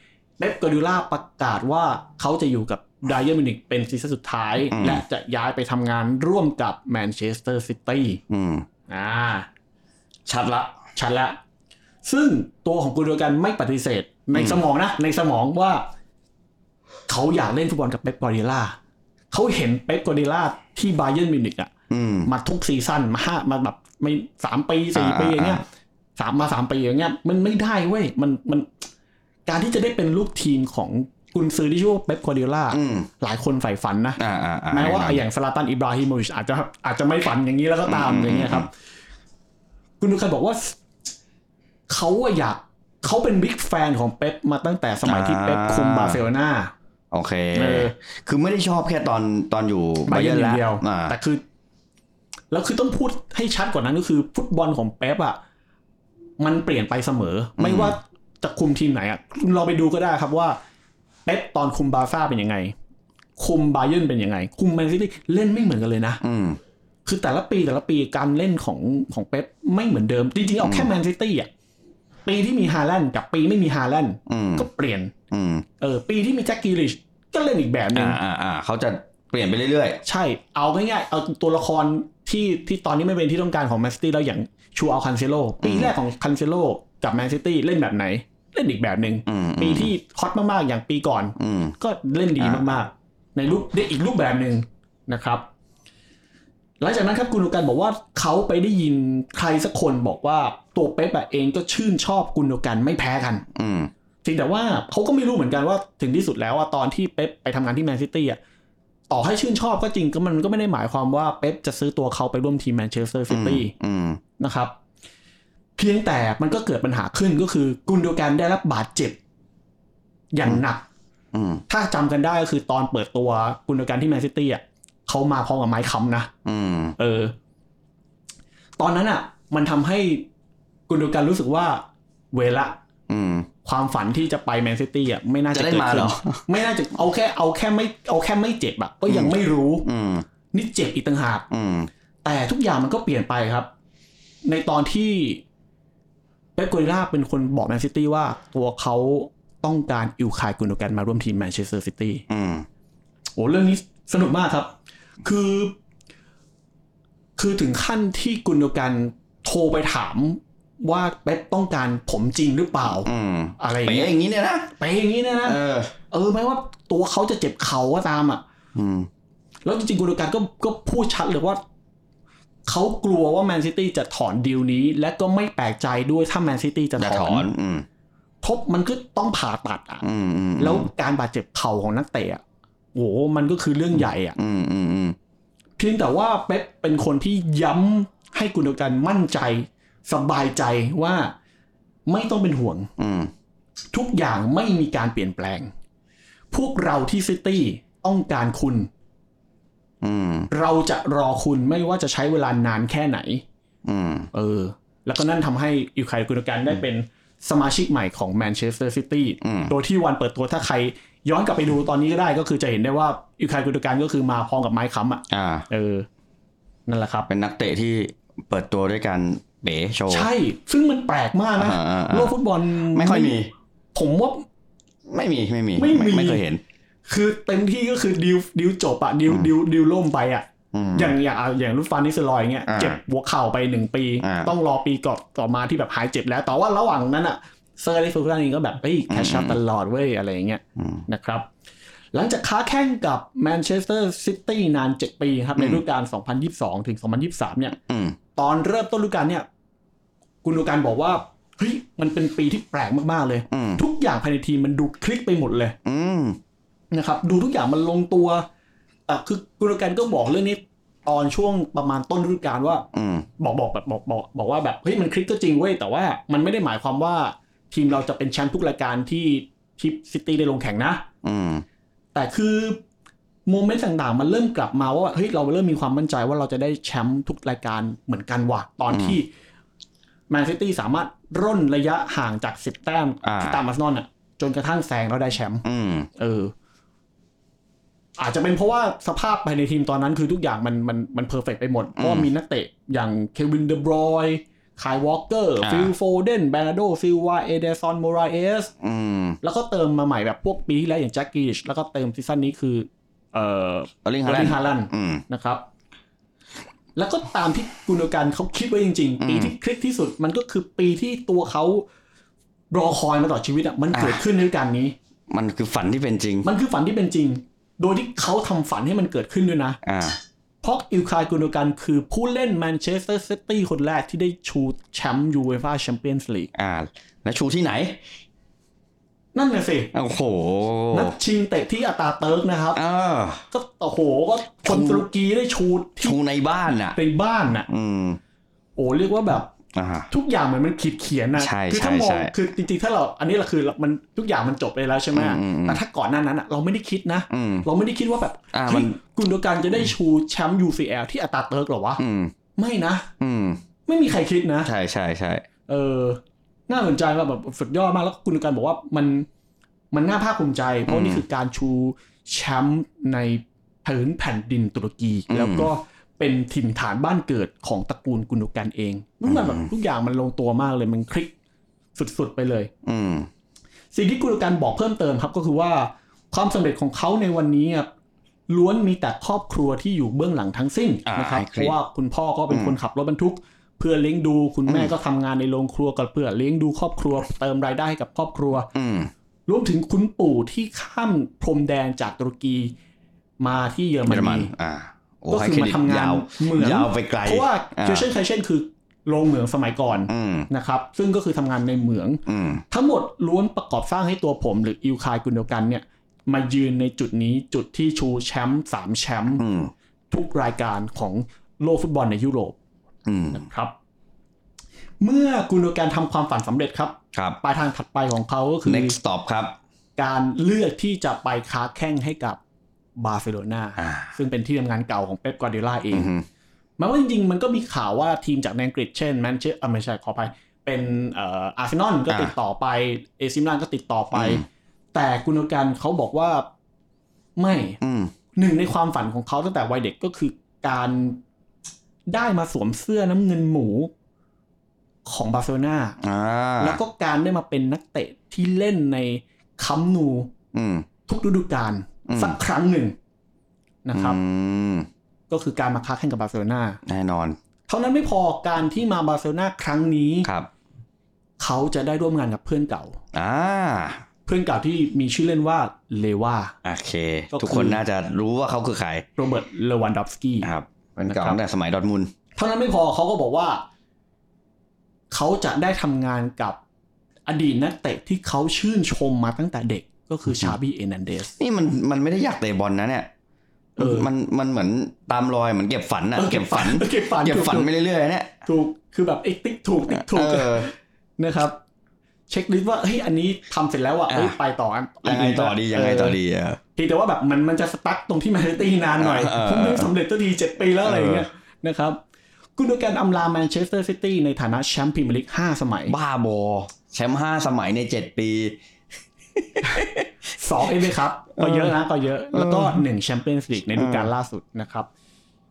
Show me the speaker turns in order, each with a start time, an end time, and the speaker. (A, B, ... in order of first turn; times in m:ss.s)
0:00.4-0:08.2 A
0:04.7-0:05.0 B
0:08.3-0:08.7 B
0:08.9-0:09.5 A
0:10.3-0:10.7 B
0:10.7-0:11.4 A
0:12.0-0:15.8 A
0:14.3-0:14.6 B
0:17.1-0:18.8 A
0:19.3-0:21.7 A
0:21.9-0:22.3 B
0:22.3-0:25.6 A
0:25.0-0:25.6 B
0:26.2-0:28.8 A
0:29.5-0:34.2 A
0:32.7-0:33.1 B
0:34.2-0:35.2 B
0:34.7-0:38.7 A
0:37.9-0:38.7 B
0:40.0-0:40.8 A
0:41.9-0:46.7 A
0:45.0-0:46.2 B
0:47.1-0:51.2 B
0:47.5-0:47.9 A
0:50.1-0:51.4 A
0:52.5-0:55.4 A
0:56.4-1:00.6 A
0:57.6-0:58.0 B
1:01.3-1:02.8 A
1:03.4-1:06.2 A
1:06.2-1:06.6 B
1:07.1-1:11.5 A
1:10.6-1:10.9 B
1:12.2-1:15.1 A
1:14.3-1:14.7 B
1:15.3-1:15.7 B
1:15.8-1:18.2 A
1:17.9-1:20.0 B
1:20.0-1:35.4 A
1:25.6-1:25.9 B
1:29.3-1:29.9 B
1:31.4-1:31.8 B
1:32.4-1:32.8 B
1:36.8-1:43.4 A
1:43.6-1:43.9 B
1:44.2-1:48.4 A
1:49.1-1:53.7 A
1:53.3-1:54.2 B
1:54.4-1:54.7 A
1:55.8-1:59.2 A
2:00.3-2:00.8 A
2:01.3-2:01.6 B
2:01.7-2:06.3 A
2:06.4-2:07.0 B
2:07.0-2:07.4 A
2:08.8-2:10.3 A
2:10.9-2:12.8 A
2:13.1-2:13.5 B
2:13.6-2:19.9 A
2:15.5-2:16.5 B
2:19.1-2:20.2 B
2:20.5-2:21.5 A
2:21.5-2:21.9 B
2:22.2-2:23.7 A
2:24.5-2:25.4 A
2:26.6-2:32.2 A
2:32.3-2:32.7 B
2:33.4-2:34.7 A
2:35.2-2:35.7 A
2:37.4-2:44.1 A
2:43.0-2:44.7 B
2:44.8-2:45.6 A
2:45.4-2:46.0 B
2:46.1-2:48.4 A
2:48.8-2:49.1 B
2:49.6-2:51.6 A
2:52.7-2:57.5 A
2:57.0-2:57.9 B
2:58.4-3:00.1 A
3:00.0-3:00.9 B
3:00.6-3:02.4 A
3:03.0-3:04.4 A
3:04.0-3:05.2 B
3:05.8-3:11.3 A
3:12.1-3:12.9 A
3:13.0-3:13.3 B
3:13.9-3:15.7 A
3:16.5-3:18.9 A
3:20.0-3:20.5 B
3:20.5-3:23.4 A
3:23.8-3:24.3 B
3:24.3-3:36.1 A
3:29.4-3:29.7 B
3:35.3-3:35.7 B
3:36.9-3:37.3 A
3:37.3-3:40.3 B
3:40.1-3:43.4 A
3:41.6-3:42.3 B
3:42.9-3:43.5 B
3:43.9-3:44.5 A
3:45.1-3:46.6 B
3:45.8-3:46.4 A
3:47.1-4:01.5 A
3:50.7-3:51.2 B
3:52.7-3:53.0 B
3:54.2-3:54.5 B
3:59.1-3:59.6 B
4:00.8-4:01.0 B
4:02.1-4:07.8 A
4:05.6-4:05.8 B
4:07.9-4:08.2 B
4:08.4-4:09.5 A
4:10.4-4:15.8 A
4:13.5-4:13.8 B
4:15.8-4:16.4 B
4:16.9-4:18.5 A
4:19.1-4:22.9 A
4:22.9-4:23.3 B
4:23.4-4:31.0 A
4:31.2-4:31.6 B
4:32.1-4:32.8 A
4:33.5-4:39.3 A
4:38.9-4:39.2 B
4:40.3-4:45.6 A
4:43.2-4:43.6 B
4:45.6-4:46.1 B
4:46.2-4:46.5 A
4:48.2-4:58.7 A
4:52.0-4:52.3 B
4:55.6-4:55.9 B
4:58.8-4:59.4 B
4:59.4-5:05.6 A
5:04.0-5:05.2 B
5:07.0-5:11.9 A
5:09.2-5:09.5 B
5:12.7-5:15.0 A
5:13.9-5:14.2 B
5:15.3-5:16.5 B
5:16.4-5:19.8 A
5:19.8-5:20.2 B
5:20.6-5:26.5 A
5:26.5-5:28.0 B
5:29.3-5:29.9 A
5:29.9-5:31.2 B
5:30.9-5:32.8 A
5:32.8-5:33.4 B
5:33.5-5:36.2 A
5:34.6-5:35.1 B
5:36.0-5:37.0 B
5:36.9-5:37.7 A
5:37.7-5:38.2 B
5:38.8-5:39.5 A
5:39.7-5:40.1 B
5:40.1-5:52.0 A
5:41.4-5:42.3 B
5:45.1-5:45.8 B
5:47.3-5:47.7 B
5:48.5-5:49.0 B
5:52.0-5:52.3 B
5:52.6-5:53.1 A
5:53.2-5:53.6 B
5:53.9-5:54.7 A
5:54.6-5:55.4 B
5:55.7-5:59.3 A
5:59.9-6:11.3 A
6:00.9-6:01.2 B
6:05.3-6:05.7 B
6:09.3-6:09.7 B
6:12.0-6:12.7 A
6:12.8-6:13.3 B
6:13.9-6:17.9 A
6:18.5-6:28.7 A
6:21.1-6:21.8 B
6:22.5-6:22.8 B
6:24.7-6:24.9 B
6:28.7-6:29.1 B
6:29.5-6:32.7 A
6:33.4-6:34.5 A
6:34.1-6:38.1 B
6:35.3-6:49.4 A
6:40.1-6:40.5 B
6:42.3-6:42.6 B
6:49.4-6:49.7 B
6:50.1-6:52.6 A
6:53.1-6:53.4 B
6:53.3-6:53.7 A
6:55.0-6:59.0 A
6:57.1-6:57.4 B
6:58.7-6:59.6 B
7:00.0-7:02.4 A
7:03.0-7:06.1 A
7:03.8-7:04.1 B
7:05.9-7:06.3 B
7:06.8-7:16.5 A
7:14.1-7:14.4 B
7:17.4-7:17.8 A
7:17.8-7:18.1 B
7:18.4-7:21.2 A
7:22.1-7:23.9 A
7:25.1-7:26.0 A
7:26.0-7:26.8 B
7:26.6-7:30.3 A
7:30.5-7:30.9 B
7:31.1-7:33.0 A
7:32.1-7:32.4 B
7:33.8-7:34.2 A
7:33.9-7:34.9 B
7:35.3-7:36.8 A
7:36.8-7:37.4 B
7:37.7-7:40.3 A
7:40.2-7:40.5 B
7:41.4-7:43.0 A
7:43.1-7:44.0 B
7:44.3-7:46.6 A
7:46.6-7:49.1 B
7:47.3-7:47.8 A
7:49.2-7:50.5 A
7:50.4-7:52.1 B
7:51.1-7:51.4 A
7:52.4-7:53.6 A
7:55.1-7:56.6 A
7:57.3-8:01.4 A
8:01.4-8:03.1 B
8:03.8-8:04.1 A
8:03.8-8:08.4 B
8:06.2-8:07.7 A
8:08.4-8:11.6 A
8:09.9-8:10.7 B
8:12.3-8:16.2 A
8:14.1-8:14.4 B
8:15.0-8:16.6 B
8:16.8-8:22.0 A
8:19.0-8:19.9 B
8:20.8-8:21.3 B
8:22.6-8:26.0 A
8:25.9-8:28.6 B
8:29.4-8:30.1 B
8:30.4-8:34.9 A
8:31.4-8:31.8 B
8:32.3-8:32.9 B
8:33.7-8:34.1 B